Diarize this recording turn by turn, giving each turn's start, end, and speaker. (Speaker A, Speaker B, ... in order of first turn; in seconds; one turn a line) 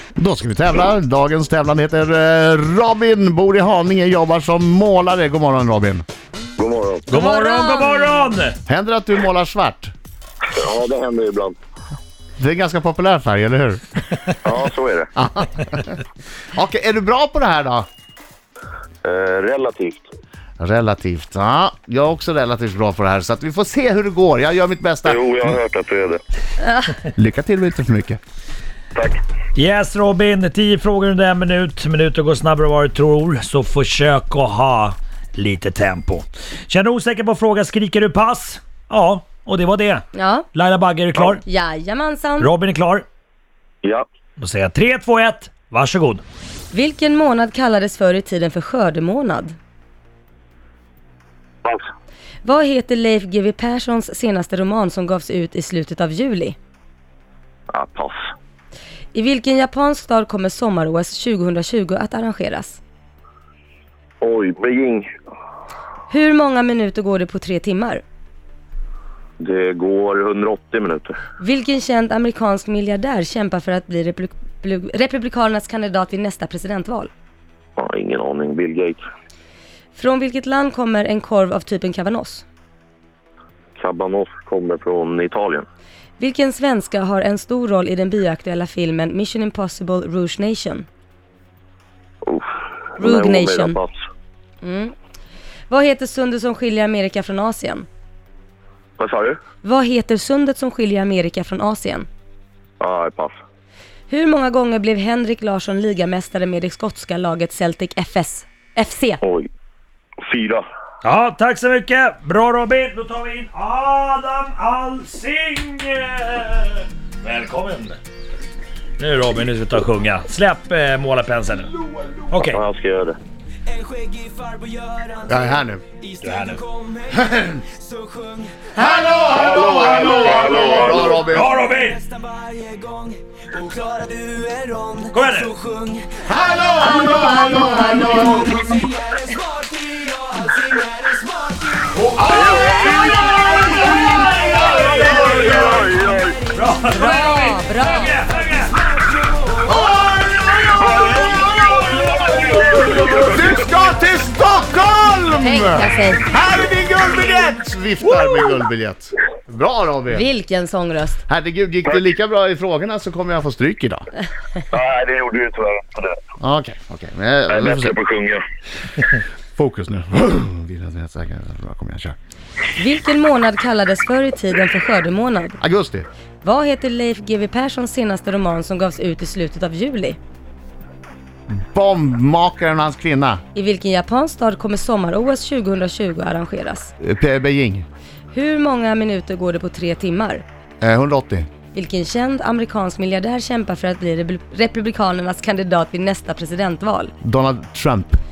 Speaker A: 0.1-6.0
Speaker B: 6.6-7.1
Speaker C: 7.1-8.6
Speaker D: 7.1-8.1
Speaker A: 8.7-9.9
Speaker B: 10.5-11.6
Speaker A: 12.4-13.8
Speaker B: 14.4-15.1
Speaker A: 15.2-16.0
Speaker A: 16.5-17.9
Speaker B: 19.0-20.1
Speaker A: 20.6-25.5
Speaker B: 25.0-26.2
Speaker D: 26.6-26.9
Speaker A: 27.1-28.2
Speaker B: 28.9-29.2
Speaker C: 29.5-41.4
Speaker D: 40.1-40.5
Speaker D: 41.4-42.5
Speaker C: 42.4-43.0
Speaker C: 44.4-46.2
Speaker D: 46.7-49.6
Speaker D: 52.4-56.6
Speaker B: 57.7-58.2
Speaker D: 59.1-62.8
Speaker B: 64.2-65.1
Speaker D: 66.1-68.0
Speaker B: 69.4-71.1
Speaker D: 71.4-77.1
Speaker B: 77.8-79.0
Speaker D: 79.9-82.5
Speaker B: 83.8-85.7
Speaker D: 86.2-90.9
Speaker B: 92.2-94.0
Speaker D: 93.0-93.8
Speaker D: 94.6-94.9
Speaker D: 95.7-97.9
Speaker B: 99.0-99.4
Speaker D: 99.6-102.1
Speaker B: 102.8-103.4
Speaker D: 104.1-109.2
Speaker B: 109.2-109.5
Speaker B: 110.3-110.6
Speaker C: 111.0-118.0
Speaker C: 119.0-121.7
Speaker C: 122.3-122.6
Speaker B: 122.4-123.2
Speaker E: 123.8-125.2
Speaker A: 125.3-125.8
Speaker C: 126.2-126.6
Speaker E: 126.2-127.0
Speaker A: 127.1-127.6
Speaker E: 127.8-128.7
Speaker A: 128.8-131.5
Speaker B: 129.3-131.2
Speaker C: 131.2-132.0
Speaker E: 132.1-136.2
Speaker C: 135.1-135.5
Speaker A: 136.2-138.6
Speaker D: 136.7-138.4
Speaker E: 138.7-141.9
Speaker A: 141.9-145.1
Speaker B: 142.2-143.8
Speaker C: 142.9-145.8
Speaker B: 145.0-146.4
Speaker C: 146.5-148.7
Speaker D: 146.9-148.1
Speaker A: 149.7-151.4
Speaker B: 150.6-153.6
Speaker A: 153.2-160.2
Speaker D: 155.4-156.3
Speaker D: 160.1-161.2
Speaker A: 161.3-164.0
Speaker B: 164.7-166.2
Speaker A: 166.4-167.9
Speaker B: 167.5-168.4
Speaker A: 169.6-172.2
Speaker D: 172.8-175.6
Speaker A: 175.6-176.1
Speaker D: 176.4-180.2
Speaker A: 181.5-183.4
Speaker D: 183.5-186.9
Speaker A: 187.0-187.8
Speaker D: 188.3-190.4
Speaker A: 190.8-191.5
Speaker D: 191.7-197.1
Speaker A: 197.2-198.2